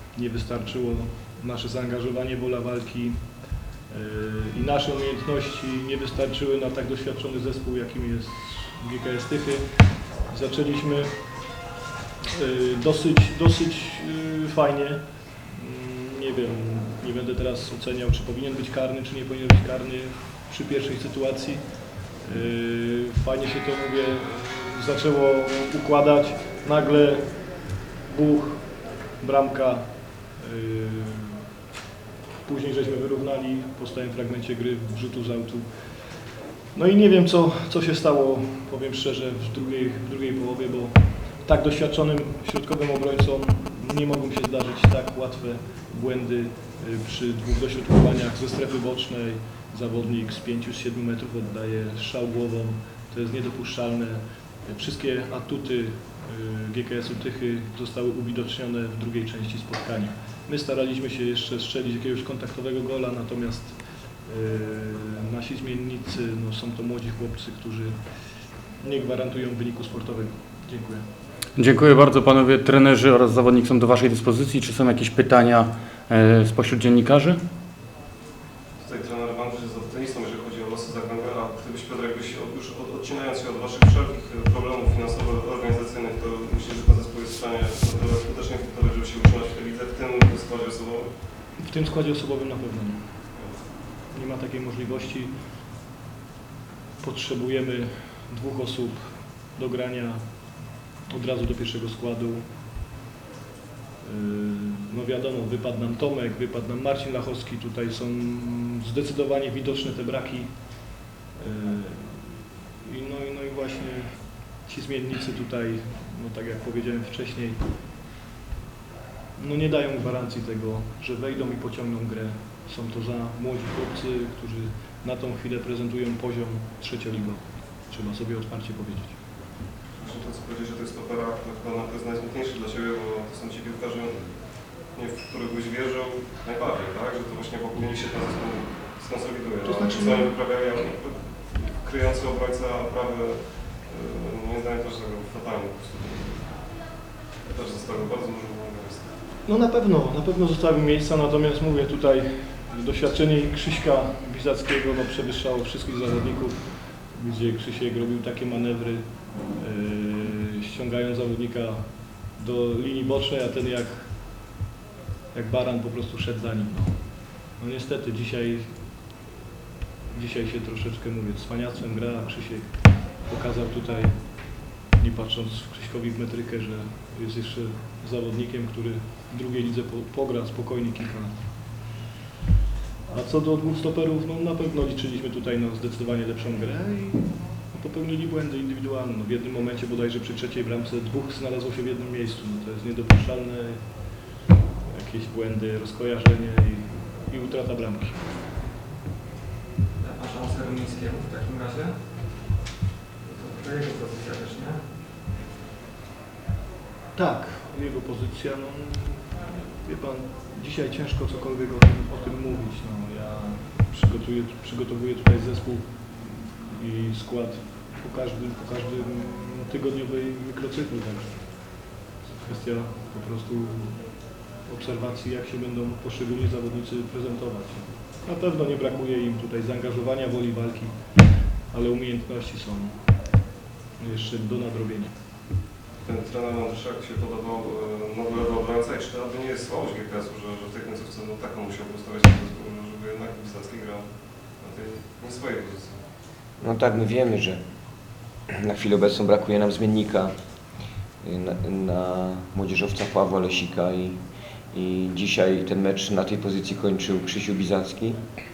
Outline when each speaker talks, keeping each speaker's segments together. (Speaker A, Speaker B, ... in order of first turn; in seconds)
Speaker A: 0.2-3.1, 4.0-9.6, 10.3-11.0, 12.5-15.0, 15.7-21.4, 22.2-27.4, 28.3-28.5, 29.2-29.7, 30.5-31.1, 32.5-35.5, 36.8-40.9, 41.5-54.1, 54.7-63.7, 64.4-67.8, 69.0-70.2, 91.7-92.9, 94.2-95.3, 97.0-98.9, 99.6-100.1, 101.2-102.3, 104.1-110.4, 111.4-112.0, 112.9-114.0, 114.7-117.5, 119.4-127.4, 127.9-129.1, 139.7-140.2, 149.5-159.0, 159.6-161.8, 162.4-163.9, 165.3-166.9, 167.6-168.6, 170.2-172.7, 173.3-174.1, 175.0-181.3, 183.1-193.7, 195.3-196.8, 197.3-198.2, 207.2-209.2, 209.9-215.8, 216.9-217.5, 218.0-221.2, 222.5-223.5, 224.7-227.7, 228.3-230.8, 231.9-232.8, 234.2-235.1
Speaker B: 71.6-77.4
Speaker C: 78.8-91.1, 130.0-146.9, 147.4-149.1, 236.1-244.1, 244.6-246.0
Speaker D: 200.0-202.0, 203.2-204.9
Speaker E: 246.6-247.6, 248.5-250.3, 251.2-254.2, 254.7-258.2